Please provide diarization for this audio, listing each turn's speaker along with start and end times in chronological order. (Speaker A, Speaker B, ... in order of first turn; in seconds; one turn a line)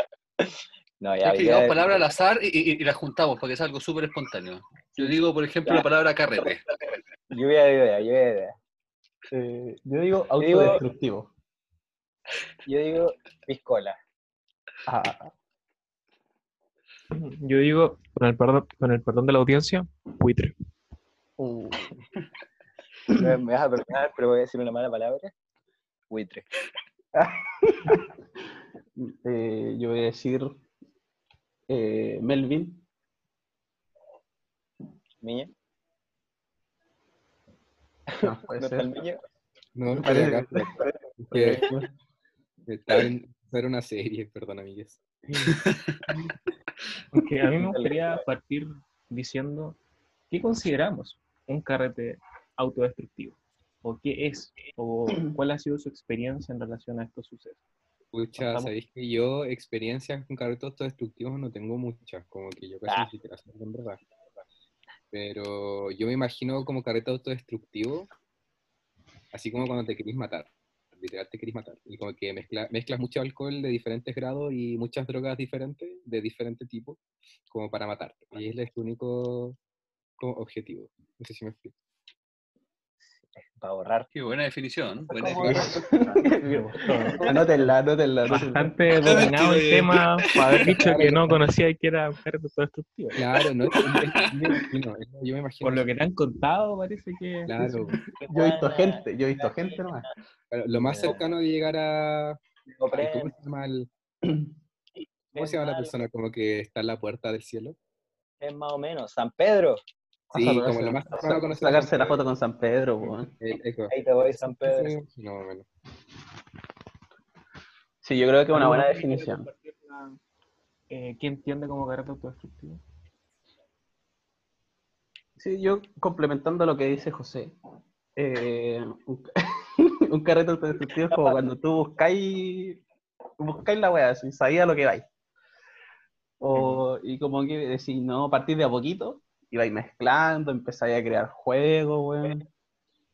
Speaker A: 0.4-2.0
Speaker B: 1.2-6.6
Speaker A: 7.3-8.5
Speaker C: 9.3-11.3
Speaker A: 10.4-10.8
Speaker A: 12.7-14.0
Speaker C: 14.8-15.3
Speaker D: 17.1-20.5
Speaker C: 21.4-21.9
Speaker A: 23.1-25.3
Speaker A: 26.1-26.4
Speaker C: 27.1-28.0
Speaker C: 29.0-30.6
Speaker C: 31.7-32.8
Speaker A: 35.2-35.5
Speaker A: 38.1-39.2
Speaker C: 38.2-38.9
Speaker E: 39.8-41.7
Speaker C: 39.9-41.9
Speaker E: 42.7-45.0
Speaker D: 47.1-49.8
Speaker A: 47.6-48.2
Speaker D: 50.3-57.6
Speaker E: 58.1-64.0
Speaker D: 58.4-58.7
Speaker E: 65.1-68.1
Speaker E: 69.3-79.6
Speaker E: 80.2-81.7
Speaker A: 83.1-84.1
Speaker B: 84.1-85.7
Speaker A: 85.1-86.3
Speaker C: 85.4-88.7
Speaker D: 86.5-87.3
Speaker D: 88.3-93.2
Speaker B: 89.0-90.5
Speaker E: 90.5-91.5
Speaker E: 93.2-95.9
Speaker D: 95.6-97.9
Speaker E: 97.5-98.0
Speaker A: 98.2-100.1
Speaker C: 98.3-100.1
Speaker E: 100.5-102.4
Speaker A: 100.7-101.2
Speaker A: 102.7-103.3
Speaker E: 102.9-103.9
Speaker C: 104.2-104.5
Speaker E: 105.3-107.8
Speaker A: 105.4-105.9
Speaker A: 108.4-109.8
Speaker C: 110.3-113.3
Speaker E: 110.3-112.3
Speaker E: 113.1-115.7
Speaker A: 113.9-114.9
Speaker C: 118.0-119.5
Speaker D: 118.5-120.2
Speaker D: 120.9-122.8
Speaker C: 125.4-127.5
Speaker C: 128.2-132.8
Speaker C: 133.4-135.1
Speaker C: 136.4-142.4